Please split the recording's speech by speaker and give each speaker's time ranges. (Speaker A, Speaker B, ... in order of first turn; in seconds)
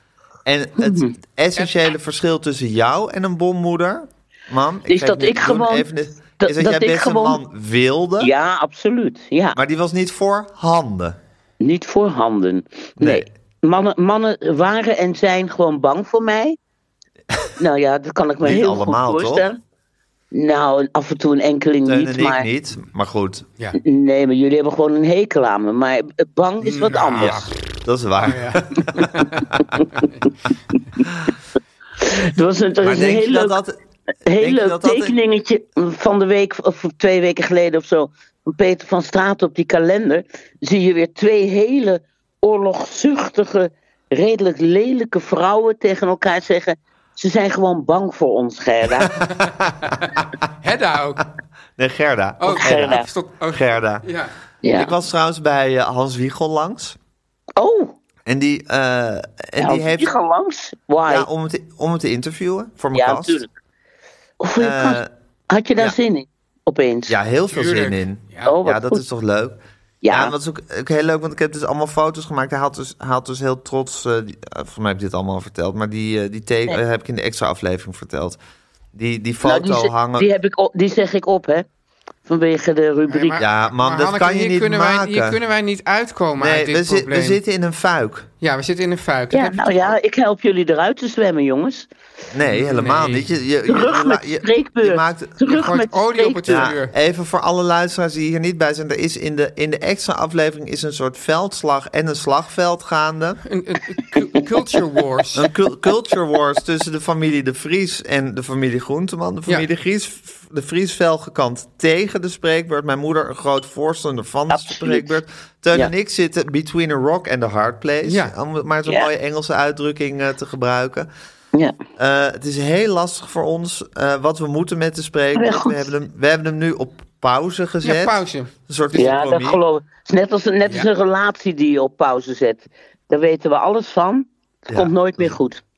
Speaker A: 0.5-8.3, 9.5-11.2, 13.0-13.3, 18.4-19.5, 21.9-23.5, 27.2-29.8, 32.8-33.8, 34.4-35.1, 51.8-54.1, 54.7-57.0, 58.3-60.1, 61.1-63.4, 64.6-65.1, 67.1-69.6, 70.1-78.4, 78.9-80.3, 83.4-85.4, 86.4-88.3, 92.3-95.4, 96.5-103.4, 105.3-121.1, 122.0-129.6, 134.7-135.3
Speaker B: 0.8-1.1, 4.9-7.4, 8.2-9.6, 11.6-16.6, 17.6-19.6, 20.3-22.5, 23.8-27.4, 32.0-33.6, 34.2-49.2, 52.6-53.1, 54.6-54.9, 57.6-57.9, 59.6-61.3, 62.9-63.5, 64.4-67.1, 68.5-69.0, 70.0-70.3, 79.4-81.7, 82.3-83.4, 89.3-91.9, 93.7-96.4, 114.5-115.1, 125.3-125.8, 128.9-135.6
Speaker C: 26.6-27.5, 28.2-30.2, 49.3-51.2, 52.4-54.3, 67.5-68.5, 83.1-87.4, 88.4-89.9, 92.5-93.3, 95.5-96.9, 103.5-105.5, 118.0-118.3, 127.8-128.5